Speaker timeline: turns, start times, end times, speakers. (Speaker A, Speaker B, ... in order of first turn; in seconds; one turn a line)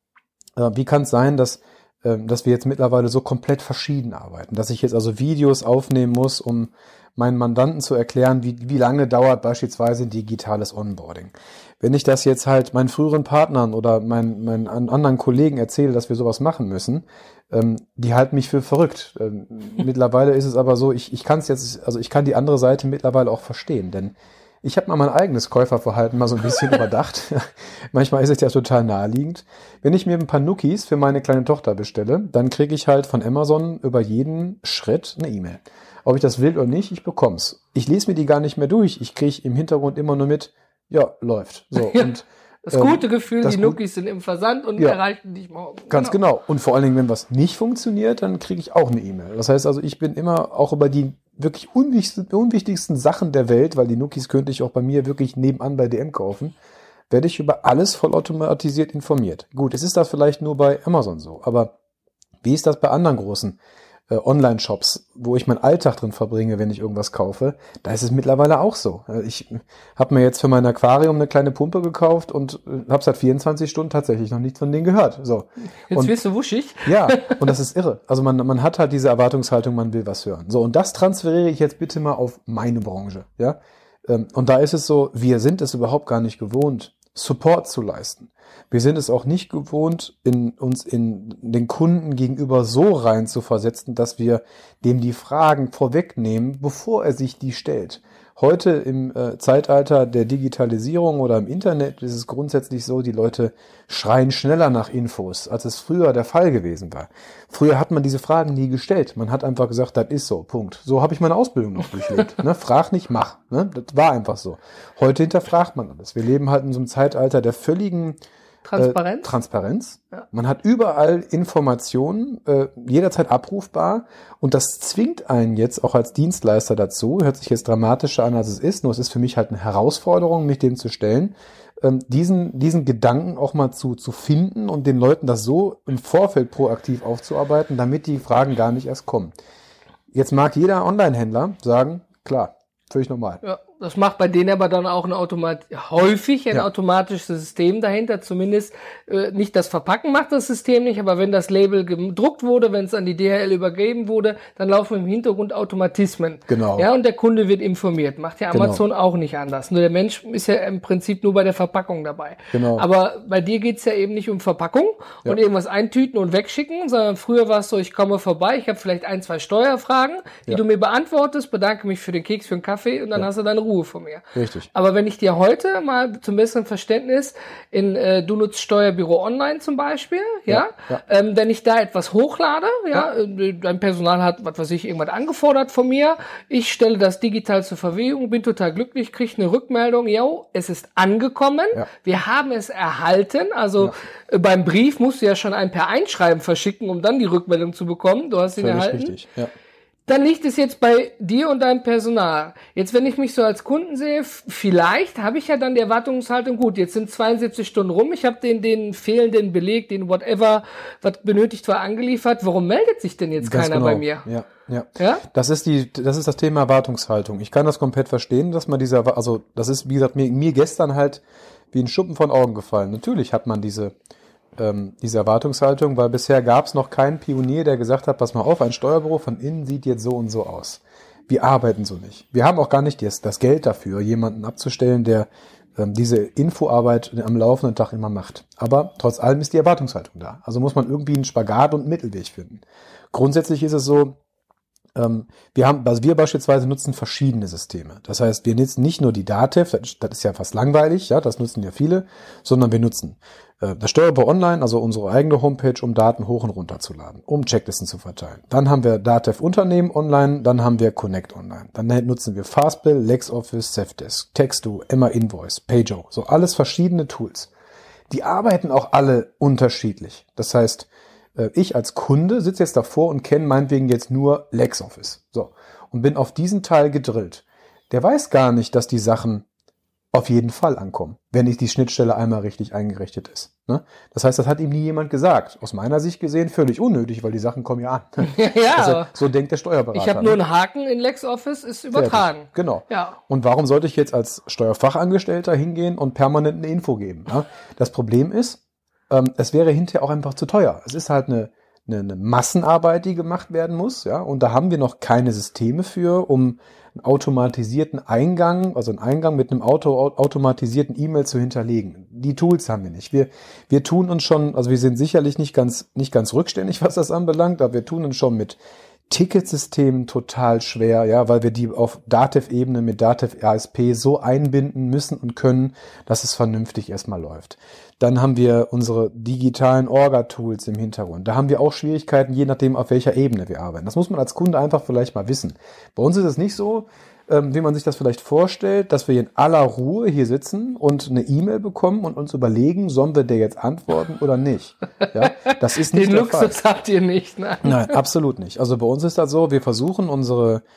Speaker A: 0.6-43.8
Speaker B: 41.8-42.1
Speaker B: 42.6-46.2
Speaker A: 45.9-56.5
Speaker A: 57.1-61.7
Speaker A: 62.4-63.6
Speaker A: 64.1-76.1
Speaker B: 75.9-77.4
Speaker A: 76.8-118.2
Speaker B: 118.6-119.3
Speaker A: 118.8-139.3
Speaker A: 140.1-143.4
Speaker B: 143.4-199.2
Speaker A: 156.5-156.9
Speaker A: 158.5-158.8
Speaker A: 162.5-162.8
Speaker A: 174.3-174.7
Speaker A: 180.5-181.0
Speaker A: 198.5-199.5
Speaker B: 200.1-214.3
Speaker A: 213.4-223.9
Speaker B: 215.0-215.2
Speaker A: 224.6-244.2
Speaker A: 244.9-267.5
Speaker A: 268.1-279.4
Speaker A: 280.1-290.4
Speaker B: 288.2-289.1
Speaker B: 289.9-293.2
Speaker A: 291.9-346.6
Speaker B: 345.2-347.9
Speaker A: 347.6-350.6